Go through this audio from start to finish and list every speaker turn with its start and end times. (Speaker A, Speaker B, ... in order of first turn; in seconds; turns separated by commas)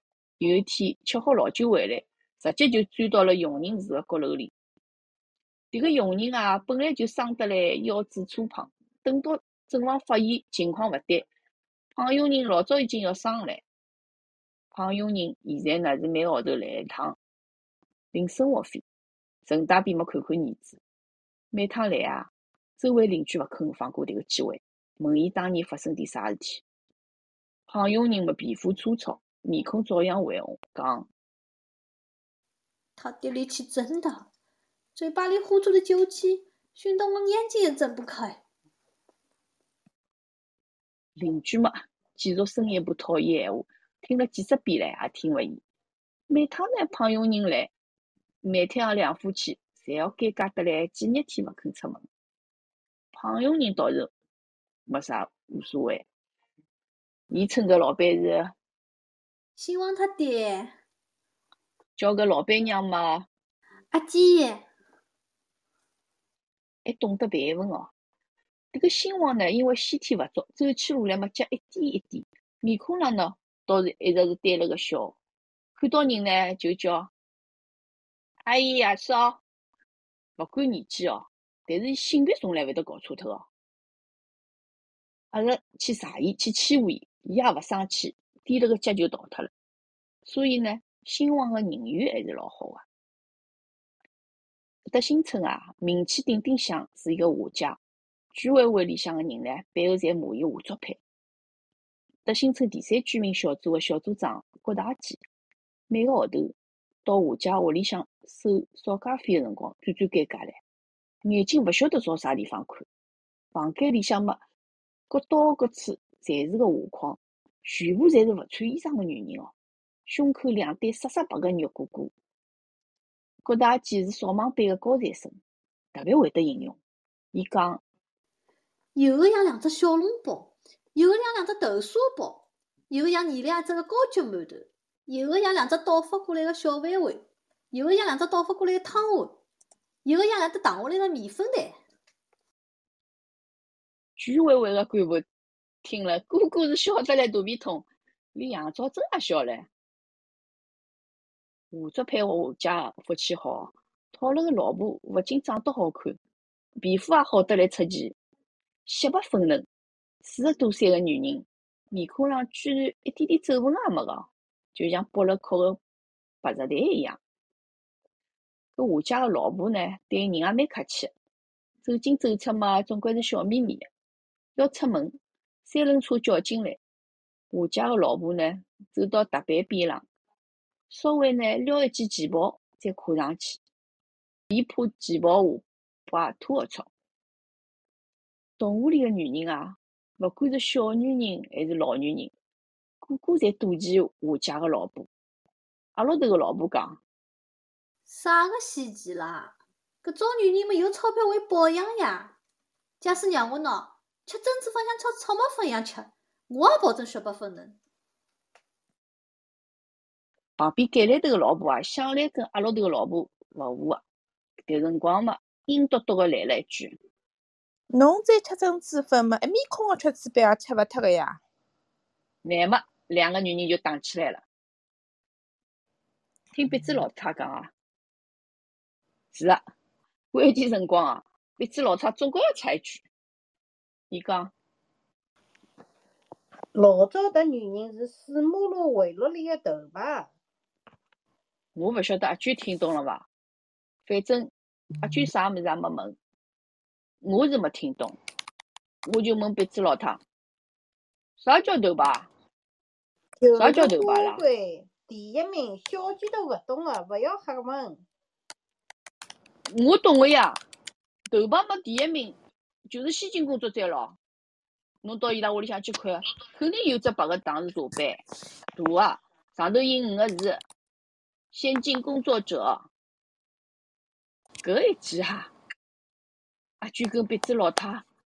Speaker A: 0.4-4.5, Speaker A: 5.7-11.3, Speaker A: 11.9-13.6, Speaker A: 14.7-17.2, Speaker A: 18.1-18.8, Speaker A: 19.4-20.8, Speaker A: 21.5-26.6, Speaker A: 27.7-31.1, Speaker B: 33.0-34.3, Speaker B: 34.9-38.4, Speaker A: 41.2-45.6, Speaker A: 46.3-47.7, Speaker A: 48.4-52.0, Speaker A: 53.1-54.1, Speaker A: 54.9-56.0, Speaker A: 57.3-58.5, Speaker B: 59.5-60.7, Speaker A: 62.0-63.3, Speaker B: 63.9-64.7, Speaker A: 66.8-67.9, Speaker A: 68.7-75.1, Speaker A: 75.8-77.1, Speaker A: 78.4-79.4, Speaker A: 80.4-83.5, Speaker A: 85.3-89.5, Speaker A: 90.2-92.8, Speaker A: 94.9-97.8, Speaker A: 98.3-101.0, Speaker A: 102.2-105.2, Speaker A: 105.9-110.6, Speaker A: 111.2-112.8, Speaker A: 113.5-114.4, Speaker A: 115.1-119.5, Speaker A: 120.0-122.1, Speaker A: 123.4-125.4, Speaker A: 125.9-126.8, Speaker A: 127.3-127.8, Speaker B: 128.9-139.4, Speaker B: 140.0-141.8, Speaker A: 144.2-145.2, Speaker A: 145.8-149.7, Speaker A: 151.7-156.2, Speaker A: 156.8-158.2, Speaker A: 158.8-159.7, Speaker A: 160.2-165.8, Speaker A: 166.4-167.2, Speaker A: 168.8-171.1, Speaker A: 171.8-173.9, Speaker A: 174.6-176.8, Speaker A: 177.5-180.0, Speaker A: 180.9-183.6, Speaker A: 184.5-186.9, Speaker A: 188.6-192.3, Speaker A: 193.0-195.1, Speaker A: 195.9-197.0, Speaker B: 198.1-202.3, Speaker B: 203.0-207.8, Speaker A: 210.6-214.0, Speaker A: 214.7-216.9, Speaker C: 217.9-221.4, Speaker A: 222.4-224.4, Speaker A: 226.5-227.7, Speaker A: 229.3-229.6, Speaker A: 230.3-233.0, Speaker A: 234.1-234.5, Speaker D: 236.7-240.3, Speaker A: 241.7-243.3, Speaker A: 244.1-246.2, Speaker A: 247.2-248.2, Speaker A: 249.1-250.2, Speaker A: 251.4-252.3, Speaker D: 253.4-258.0, Speaker A: 253.6-254.4, Speaker A: 259.7-260.6, Speaker A: 261.3-262.4, Speaker A: 262.9-264.2, Speaker A: 265.0-268.2, Speaker A: 268.7-270.6, Speaker A: 271.5-272.9, Speaker A: 274.6-275.5, Speaker A: 276.8-278.0